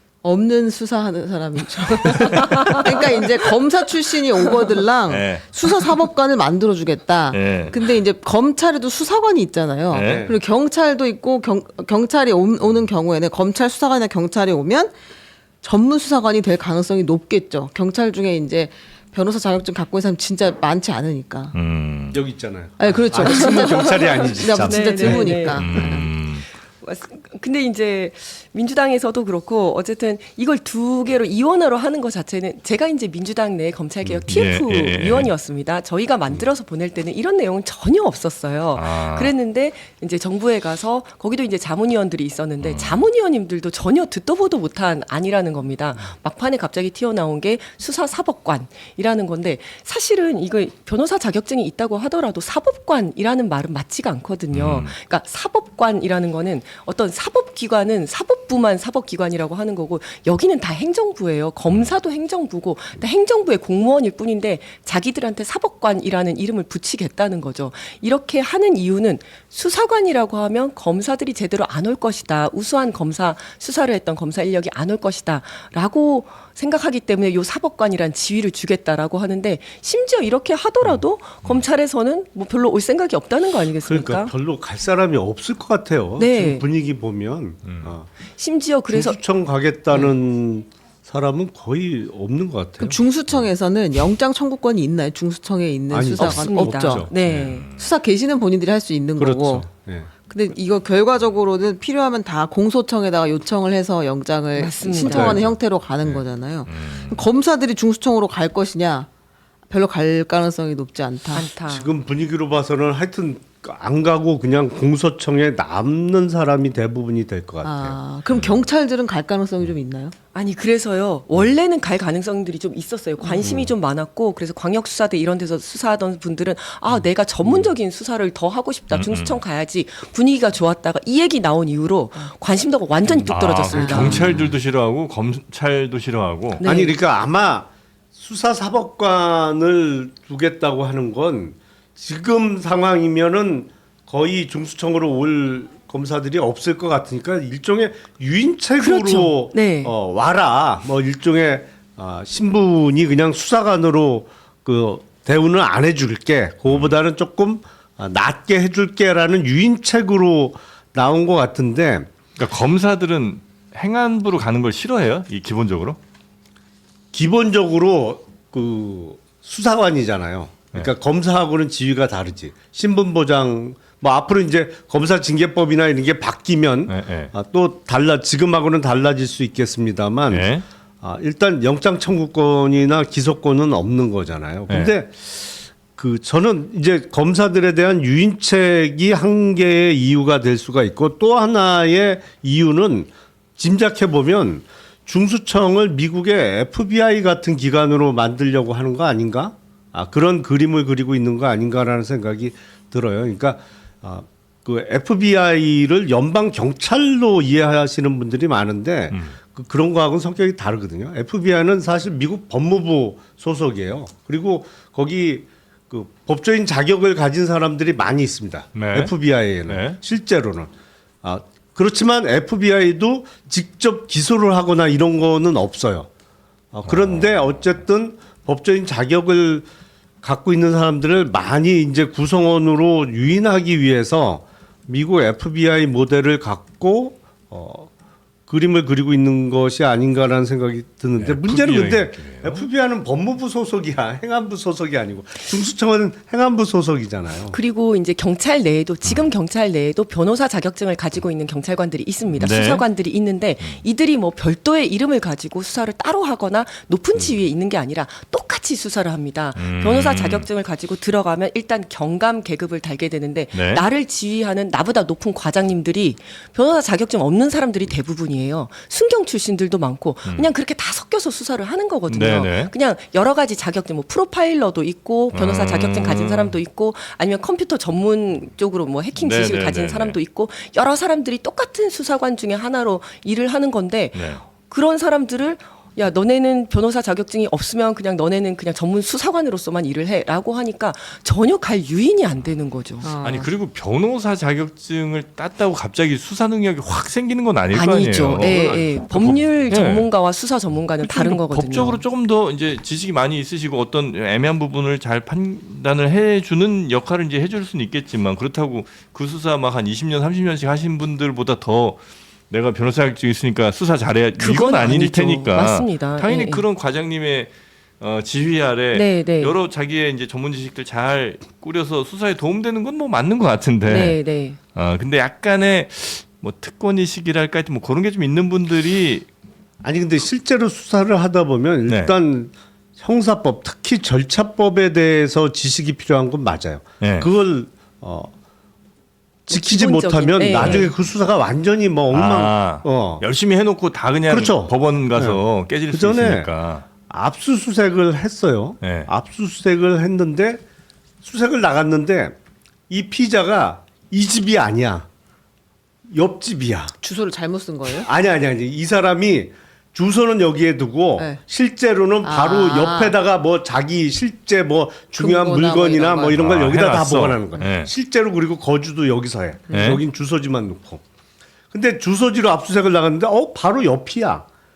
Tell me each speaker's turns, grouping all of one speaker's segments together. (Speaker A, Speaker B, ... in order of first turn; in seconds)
Speaker A: 0.2-14.9, 15.6-21.6, 22.8-26.1, 92.8-97.1, 97.8-99.7, 100.3-109.1, 109.7-111.5, 117.6-120.1, 133.7-134.2, 293.0-293.5, 357.0-358.1, 362.2-363.2, 365.2-366.4, 369.7-370.0
Speaker B: 5.1-5.5, 7.3-7.8, 9.9-10.3, 21.5-22.2, 25.5-26.5, 34.3-35.3, 38.8-39.3, 42.6-43.0, 54.5-54.9, 87.7-87.9, 97.2-97.9, 106.7-107.2, 128.9-129.4, 133.1-136.6, 156.7-157.0, 162.4-166.0, 176.9-177.3, 180.3-180.7, 209.1-209.4, 218.8-219.1, 219.7-220.0, 226.9-227.7, 241.2-242.7, 252.3-252.8, 259.6-260.5, 263.5-263.8, 272.1-272.7, 275.3-276.6, 279.2-280.2, 284.1-284.4, 293.2-300.1, 301.0-329.3, 331.9-332.1, 337.0-337.3, 340.6-340.9, 342.1-346.9, 348.8-349.1, 366.3-367.9, 369.7-370.0
Speaker C: 10.0-10.4, 22.1-25.4, 34.0-34.3, 83.8-88.1, 88.9-93.5, 95.9-97.1, 99.2-100.1, 105.0-105.5, 111.6-118.0, 123.4-123.7, 127.4-127.8, 134.0-134.4, 136.6-162.1, 167.1-180.5, 181.0-220.7, 221.2-226.1, 226.7-229.7, 230.2-237.9, 238.5-247.6, 298.3-299.6, 329.8-338.3, 339.5-343.2, 344.3-346.5, 347.1-350.6, 351.2-352.4, 352.9-355.1, 356.1-357.0, 358.0-371.0, 371.7-374.4
Speaker D: 23.2-26.1, 26.8-84.3, 86.2-86.7, 88.4-89.2, 96.2-97.7, 104.5-105.4, 111.3-112.0, 120.3-134.5, 136.6-137.0, 148.8-149.9, 247.5-293.1, 297.7-302.0, 314.4-316.6, 318.9-319.5, 323.9-324.6, 339.5-340.9